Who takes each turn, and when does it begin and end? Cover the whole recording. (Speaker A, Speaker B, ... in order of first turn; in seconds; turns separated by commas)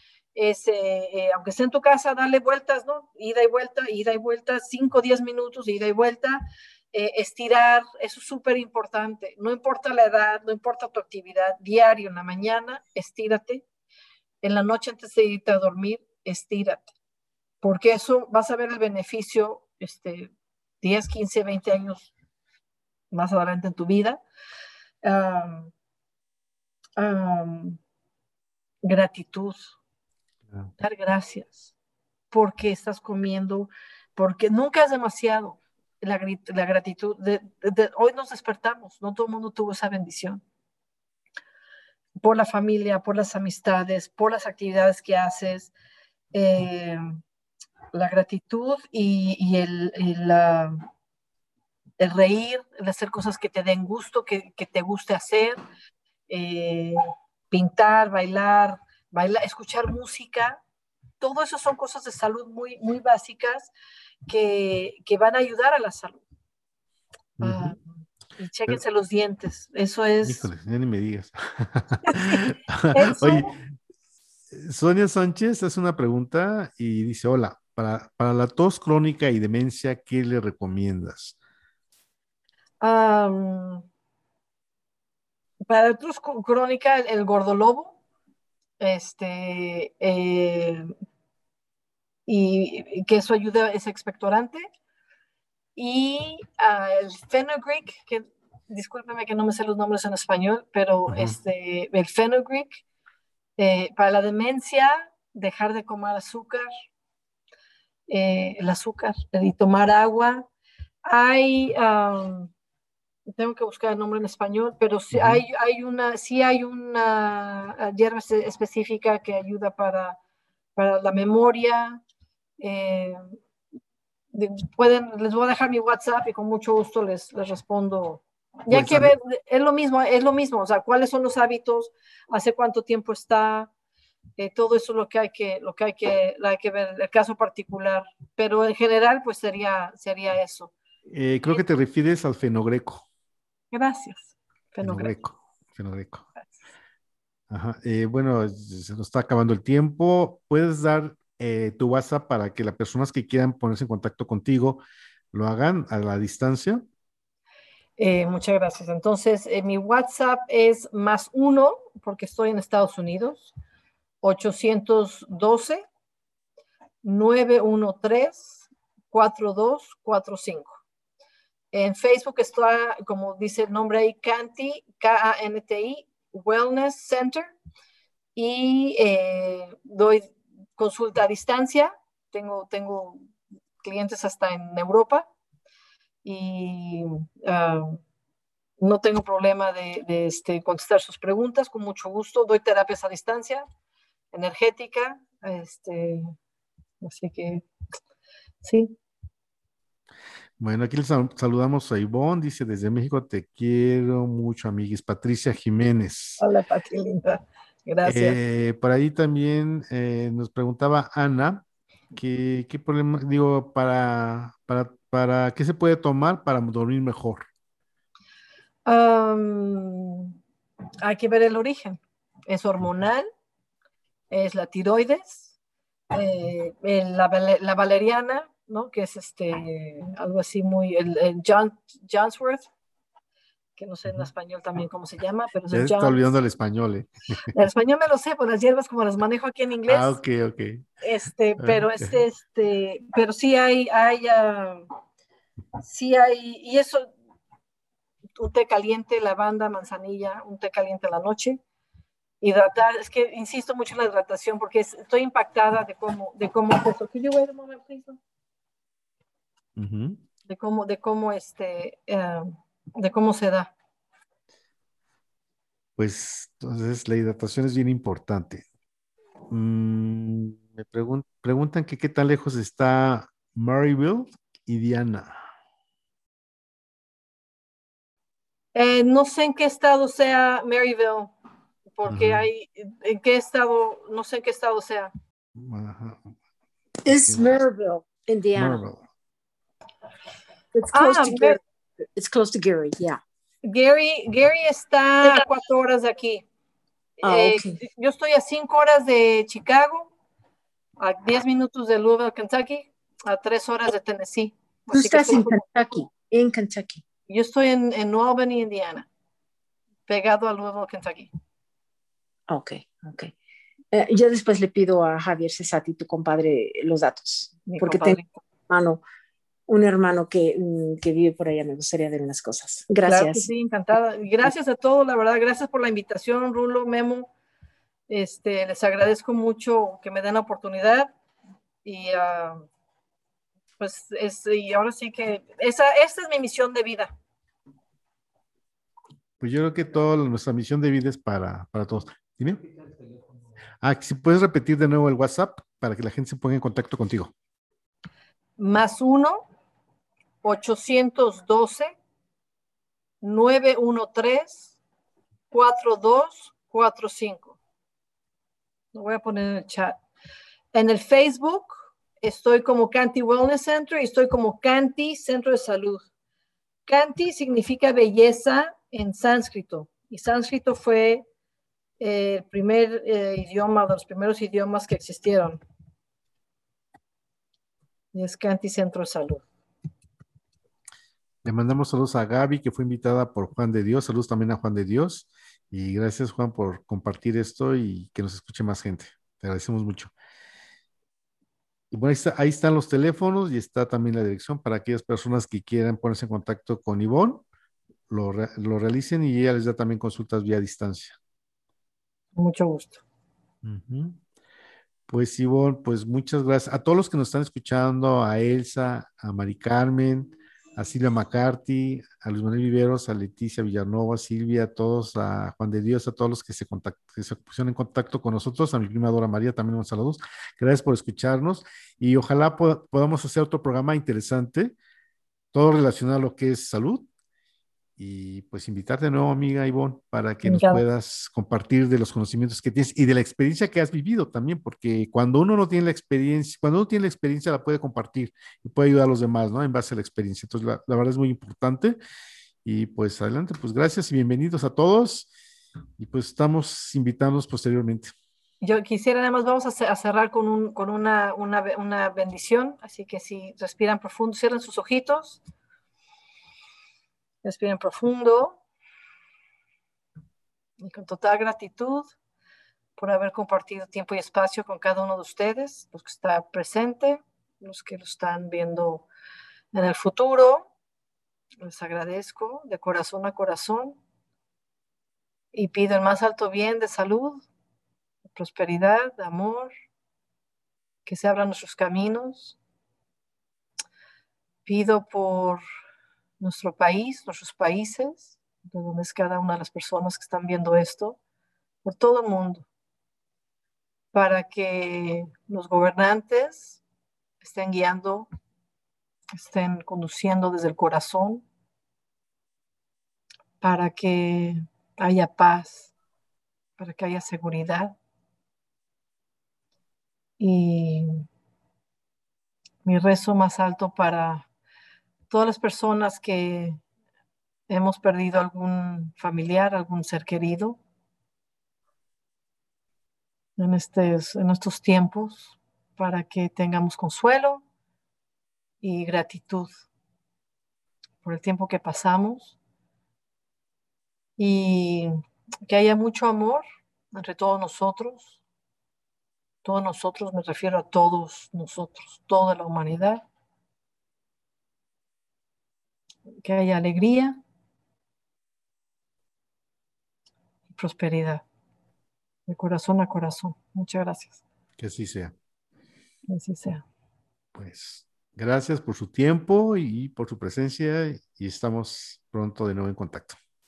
Speaker A: 0.3-6.4, Speaker A: 6.9-13.7, Speaker A: 14.4-16.9, Speaker A: 17.6-22.1, Speaker A: 23.1-24.2, Speaker A: 25.0-25.7, Speaker A: 27.0-27.8, Speaker A: 28.8-29.8, Speaker A: 30.8-31.7, Speaker A: 32.3-40.4, Speaker A: 42.2-45.7, Speaker A: 46.3-47.0, Speaker A: 47.9-50.8, Speaker A: 52.0-55.6, Speaker A: 56.3-60.6, Speaker A: 61.2-63.7, Speaker A: 64.3-66.2, Speaker B: 67.4-67.8, Speaker A: 67.4-67.8, Speaker A: 68.4-70.5, Speaker B: 70.2-73.6, Speaker A: 72.9-73.5, Speaker B: 74.5-81.4, Speaker A: 82.8-83.8, Speaker A: 85.7-88.0, Speaker A: 88.8-90.9, Speaker A: 92.3-94.6, Speaker A: 95.8-102.8, Speaker B: 101.1-101.4, Speaker A: 103.6-106.7, Speaker A: 108.1-110.5, Speaker A: 111.1-112.5, Speaker A: 113.3-120.2, Speaker B: 115.1-115.4, Speaker A: 120.8-122.0, Speaker A: 122.6-123.2, Speaker A: 124.3-133.7, Speaker B: 128.7-129.1, Speaker A: 134.4-140.7, Speaker B: 141.1-143.1, Speaker A: 143.7-145.1, Speaker B: 144.8-146.3, Speaker B: 147.5-156.8, Speaker A: 158.0-163.5, Speaker A: 164.2-165.8, Speaker A: 167.0-170.8, Speaker A: 171.7-177.5, Speaker A: 178.4-183.2, Speaker A: 183.8-185.3, Speaker A: 186.2-188.0, Speaker A: 188.8-193.7, Speaker A: 194.3-196.3, Speaker A: 197.0-197.7, Speaker A: 198.6-198.9, Speaker B: 200.6-206.4, Speaker A: 206.4-208.4, Speaker B: 208.1-211.6, Speaker B: 212.2-217.4, Speaker A: 218.9-220.3, Speaker A: 221.0-223.3, Speaker A: 224.3-225.5, Speaker A: 226.1-232.7, Speaker A: 233.8-236.2, Speaker B: 235.7-237.5, Speaker A: 237.5-240.2, Speaker B: 239.9-240.8, Speaker A: 241.0-244.8, Speaker B: 241.6-242.2, Speaker A: 245.8-247.1, Speaker A: 248.4-251.6, Speaker A: 252.4-258.2, Speaker B: 259.8-260.2, Speaker A: 260.5-263.7, Speaker B: 266.0-268.6, Speaker B: 269.5-275.4, Speaker A: 278.8-281.3, Speaker A: 281.9-285.1, Speaker B: 282.1-282.4, Speaker B: 285.6-286.3, Speaker C: 287.1-288.8, Speaker B: 287.1-287.6, Speaker B: 288.6-289.0, Speaker C: 290.7-291.6, Speaker A: 290.9-291.6, Speaker C: 292.1-293.2, Speaker A: 293.6-296.4, Speaker A: 297.2-300.1, Speaker C: 297.2-297.8, Speaker A: 301.0-305.6, Speaker C: 304.9-307.0, Speaker A: 307.3-309.1, Speaker A: 310.1-311.3, Speaker C: 312.5-313.3, Speaker C: 313.9-319.0, Speaker A: 317.7-318.4, Speaker C: 319.7-323.5, Speaker A: 323.1-327.3, Speaker A: 328.1-331.1, Speaker A: 331.9-332.6, Speaker A: 333.8-337.1, Speaker B: 339.4-342.6, Speaker B: 343.8-347.3, Speaker A: 348.6-349.4, Speaker A: 350.4-351.9, Speaker A: 353.2-354.7, Speaker A: 355.5-357.6, Speaker A: 358.9-360.0, Speaker A: 360.7-366.1, Speaker A: 366.9-371.2, Speaker A: 372.0-375.6, Speaker A: 378.1-379.5, Speaker B: 381.4-390.1, Speaker B: 391.9-397.4, Speaker B: 398.1-401.2, Speaker A: 402.4-403.0, Speaker B: 403.6-404.2, Speaker B: 405.1-424.8, Speaker B: 425.5-427.1, Speaker B: 428.0-442.0, Speaker A: 430.4-430.8, Speaker B: 442.6-445.3, Speaker B: 446.0-448.1, Speaker A: 448.6-455.4, Speaker A: 457.4-458.6, Speaker A: 460.8-462.1, Speaker A: 463.0-469.1, Speaker A: 469.7-470.7, Speaker A: 471.6-474.0, Speaker A: 475.5-477.4, Speaker A: 478.3-479.7, Speaker A: 481.1-482.6, Speaker A: 484.7-485.6, Speaker A: 486.4-491.2, Speaker A: 491.9-492.6, Speaker A: 494.1-496.8, Speaker A: 497.4-498.3, Speaker A: 499.3-501.4, Speaker A: 503.6-505.9, Speaker A: 506.8-507.9, Speaker A: 510.4-511.2, Speaker A: 512.9-514.5, Speaker A: 515.3-516.8, Speaker A: 517.7-520.8, Speaker A: 523.6-527.6, Speaker A: 528.8-529.8, Speaker A: 531.2-532.6, Speaker A: 534.4-535.1, Speaker A: 535.7-538.4, Speaker A: 539.6-543.2, Speaker A: 546.4-547.4, Speaker A: 550.8-551.4, Speaker A: 552.5-554.4, Speaker B: 554.8-555.3, Speaker A: 556.3-556.8, Speaker B: 557.5-563.4